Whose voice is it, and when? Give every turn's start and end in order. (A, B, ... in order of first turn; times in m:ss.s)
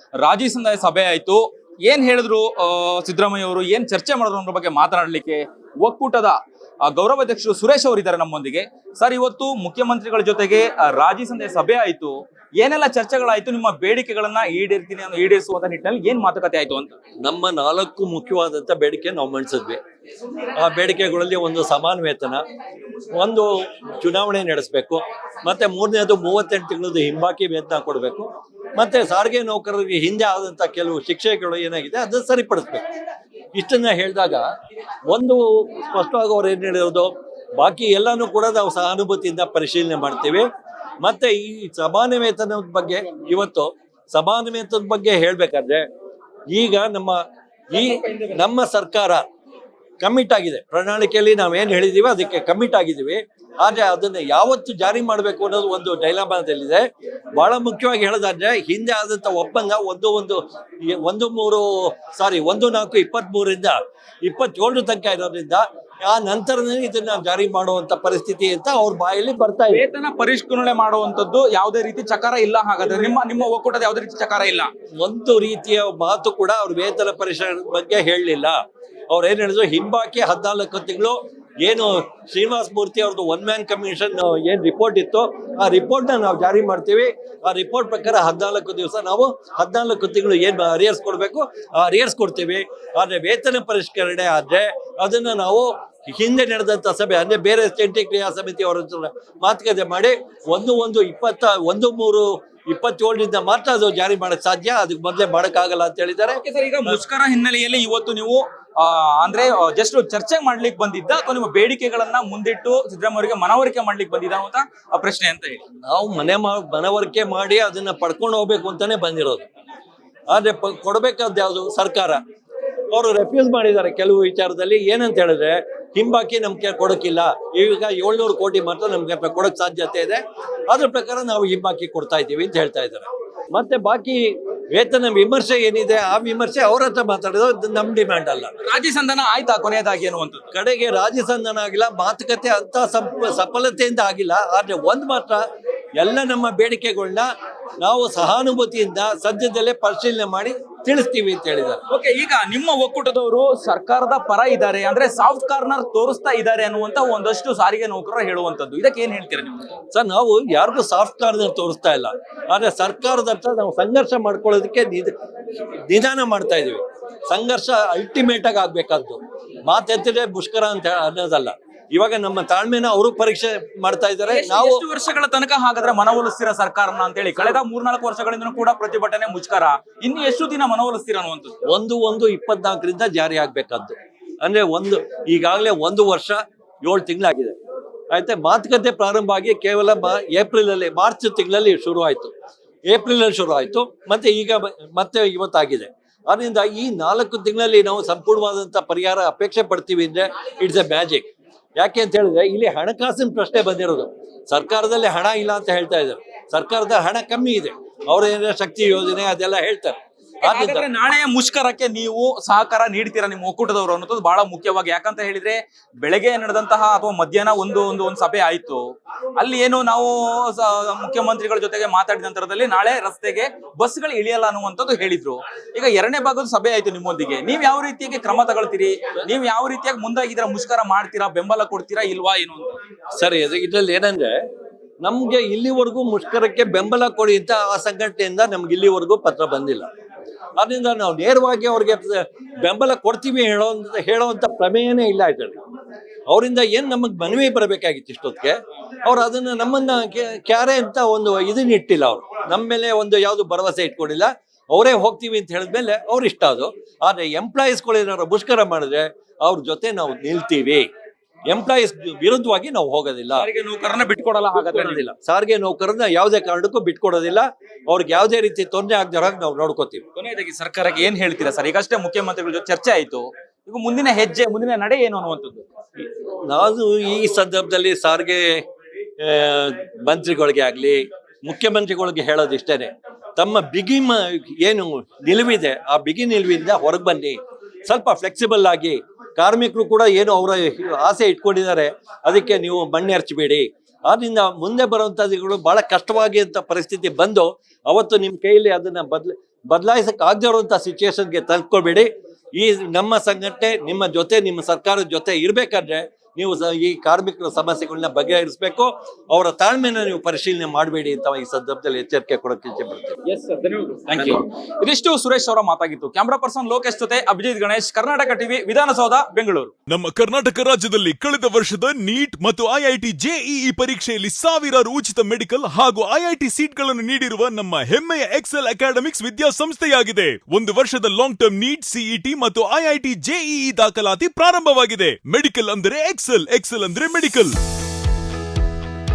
0:00.2-0:16.9 A
0:17.2-0:19.8 B
0:20.6-0:22.4 B
0:23.1-0:32.8 B
0:33.6-0:34.5 B
0:35.1-0:40.4 B
0:41.0-0:45.8 B
0:46.5-0:47.2 B
0:47.7-0:49.2 B
0:50.0-0:56.8 B
0:57.4-1:09.8 B
1:09.7-1:14.7 A
1:15.0-1:18.6 B
1:19.1-1:47.0 B
1:46.4-1:55.6 A
1:55.8-1:59.5 B
2:00.3-2:02.2 B
2:02.9-2:18.5 B
2:18.6-2:20.5 A
2:20.5-2:25.4 B
2:26.0-2:27.3 B
2:27.8-2:31.8 B
2:31.9-2:39.7 A
2:39.9-2:45.1 B
2:45.9-2:54.8 B
2:54.2-3:01.5 A
3:01.7-3:07.6 B
3:08.1-3:12.3 B
3:12.9-3:30.8 B
3:30.4-3:38.8 A
3:39.4-3:52.8 A
3:53.2-3:54.4 B
3:55.0-3:59.9 B
4:00.6-4:05.6 B
4:06.3-4:20.9 B
4:21.5-4:23.5 B
4:23.4-4:25.0 A
4:24.5-4:30.0 B
4:30.2-4:35.6 A
4:36.4-4:38.6 B
4:39.2-5:13.2 B
5:13.2-5:19.7 A
5:19.9-5:37.5 C